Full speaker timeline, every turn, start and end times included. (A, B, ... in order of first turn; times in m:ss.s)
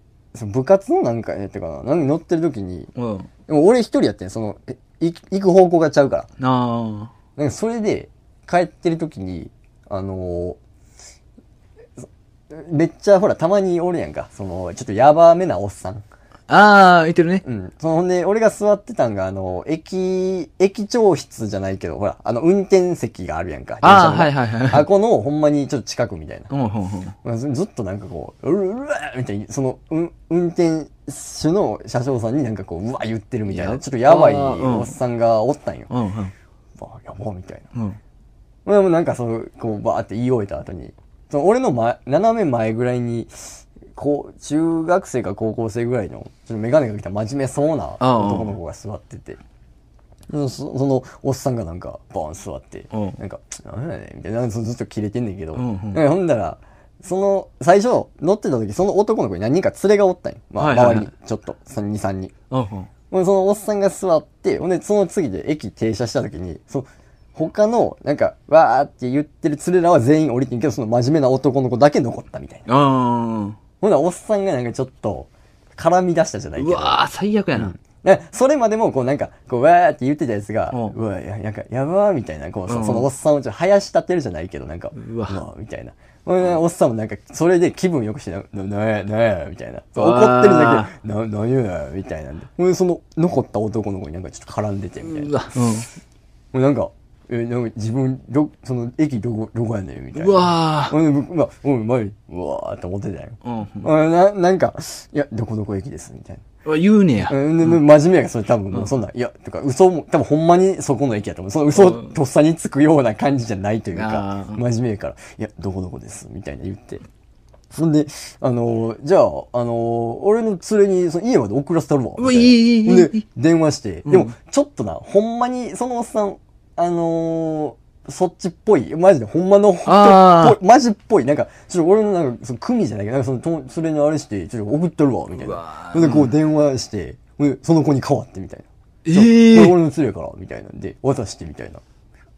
0:00.3-0:02.9 A
0:03.0-0:03.3 B
0:03.5-0:06.3 A
0:06.4-0:07.1 B
0:07.4-0:10.6 A
0:12.0-0:16.0 A
0:16.5-0:17.4 B
0:17.4-0:26.5 A
0:23.8-0:24.9 B
0:26.5-0:27.2 B
0:27.2-0:35.9 A
0:33.5-0:35.0 B
0:35.9-0:36.3 B
0:36.8-0:37.7 A
0:37.7-0:38.0 B
0:38.7-0:49.4 A
0:48.0-0:48.6 B
0:50.3-1:02.3 A
0:52.9-0:53.2 B
0:55.6-0:56.0 B
1:00.6-1:01.1 B
1:02.5-1:02.9 B
1:03.1-1:12.6 A
1:12.7-1:13.6 B
1:13.8-1:17.0 A
1:16.6-1:17.8 B
1:17.6-1:35.3 A
1:22.7-1:23.1 B
1:24.9-1:25.4 B
1:30.0-1:30.9 B
1:35.0-1:35.9 B
1:36.5-1:46.4 A
1:40.2-1:41.0 B
1:43.4-1:43.9 B
1:46.6-1:47.8 B
1:47.3-1:57.0 A
1:51.8-1:52.2 B
1:53.9-1:54.6 B
1:57.7-2:21.8 A
2:02.2-2:03.2 B
2:04.1-2:04.3 B
2:09.8-2:10.6 B
2:15.4-2:16.3 B
2:19.0-2:19.8 B